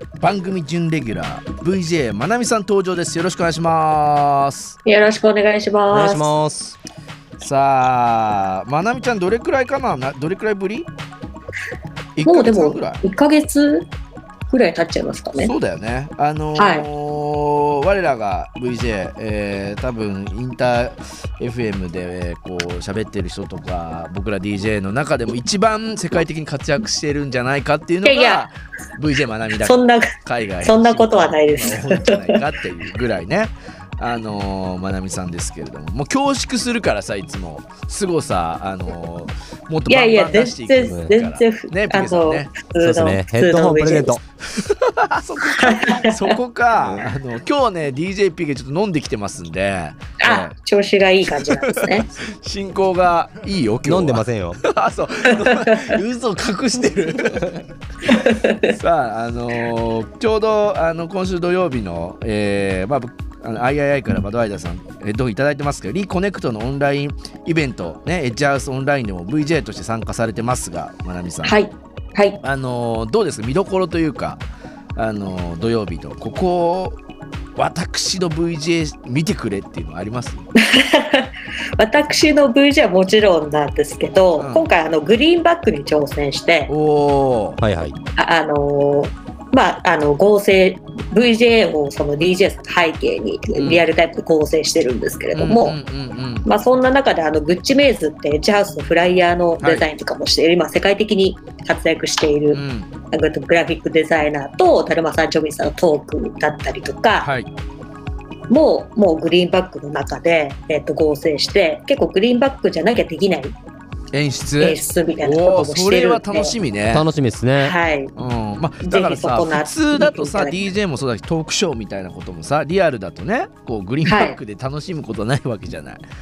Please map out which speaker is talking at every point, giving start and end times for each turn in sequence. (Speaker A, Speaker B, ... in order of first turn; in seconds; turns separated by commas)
Speaker A: 0.2-4.8, Speaker B: 4.8-6.3, Speaker C: 5.9-6.8, Speaker A: 7.4-10.9, Speaker A: 12.2-13.0, Speaker B: 12.3-13.9, Speaker B: 14.5-15.5, Speaker A: 15.4-42.5, Speaker B: 16.6-16.9, Speaker B: 28.1-28.5, Speaker B: 29.6-32.5, Speaker B: 39.9-44.2, Speaker C: 42.8-44.2, Speaker A: 44.5-50.5, Speaker B: 45.6-46.4, Speaker B: 50.2-52.1, Speaker A: 51.3-57.6, Speaker C: 53.9-54.6, Speaker B: 55.3-55.9, Speaker B: 58.1-58.7, Speaker A: 58.6-71.6, Speaker B: 71.4-72.4, Speaker A: 72.4-74.4, Speaker A: 75.0-77.0, Speaker A: 77.6-80.5, Speaker B: 80.6-86.7, Speaker A: 84.4-84.6, Speaker A: 86.7-87.6, Speaker C: 87.6-88.0, Speaker B: 88.2-95.8, Speaker A: 93.6-93.8, Speaker A: 95.3-96.5, Speaker B: 96.5-102.6, Speaker A: 102.5-102.9, Speaker B: 103.1-107.3, Speaker A: 107.2-107.5, Speaker B: 108.5-113.6, Speaker A: 114.1-117.1, Speaker B: 114.6-116.5, Speaker C: 116.9-117.7, Speaker B: 117.6-118.1, Speaker A: 118.2-126.0, Speaker B: 118.8-120.8, Speaker B: 124.0-124.4